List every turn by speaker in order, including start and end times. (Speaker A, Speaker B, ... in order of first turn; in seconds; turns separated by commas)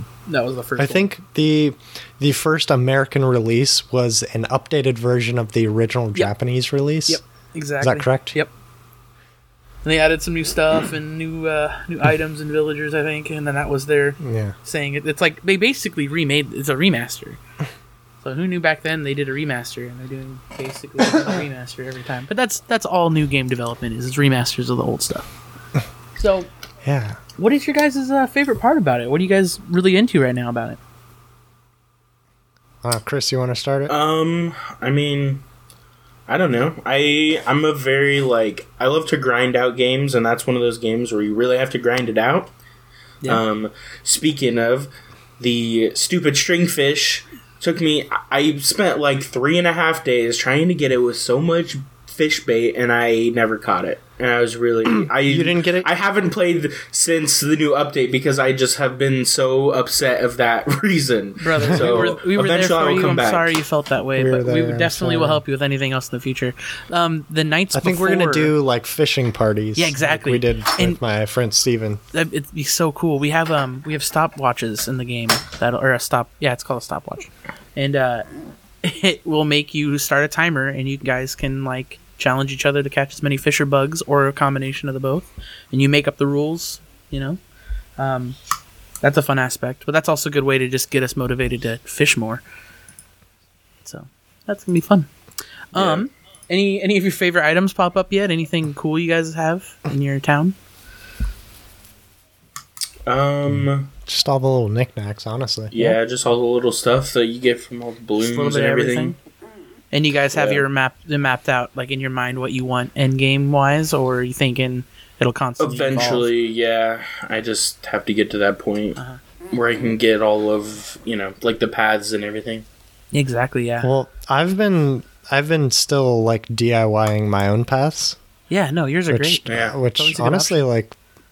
Speaker A: 0.3-1.1, Speaker B: 0.8-7.2, Speaker A: 7.1-8.5, Speaker B: 7.8-8.4, Speaker A: 9.8-17.4, Speaker B: 14.2-14.6, Speaker A: 18.2-25.3, Speaker A: 26.2-26.5, Speaker B: 26.8-27.2, Speaker A: 27.4-30.8, Speaker B: 32.8-33.9, Speaker C: 33.9-35.4, Speaker C: 36.3-42.5, Speaker C: 43.2-63.6, Speaker B: 55.0-55.9, Speaker A: 61.4-68.5, Speaker B: 61.7-62.0, Speaker B: 64.2-65.4, Speaker B: 67.7-72.0, Speaker A: 69.8-71.0, Speaker A: 72.1-78.3, Speaker A: 78.8-87.4, Speaker A: 88.0-88.4, Speaker A: 89.0-92.4, Speaker A: 93.8-95.1, Speaker A: 95.7-100.6, Speaker C: 95.8-96.0, Speaker C: 103.1-103.9, Speaker B: 104.1-106.0, Speaker C: 105.7-109.2, Speaker A: 108.2-109.2, Speaker A: 109.9-116.3, Speaker C: 110.3-110.7, Speaker C: 115.6-119.0, Speaker C: 119.5-122.7, Speaker A: 123.1-123.9, Speaker B: 123.8-128.2, Speaker A: 128.5-130.6, Speaker B: 129.1-131.0, Speaker C: 129.5-129.8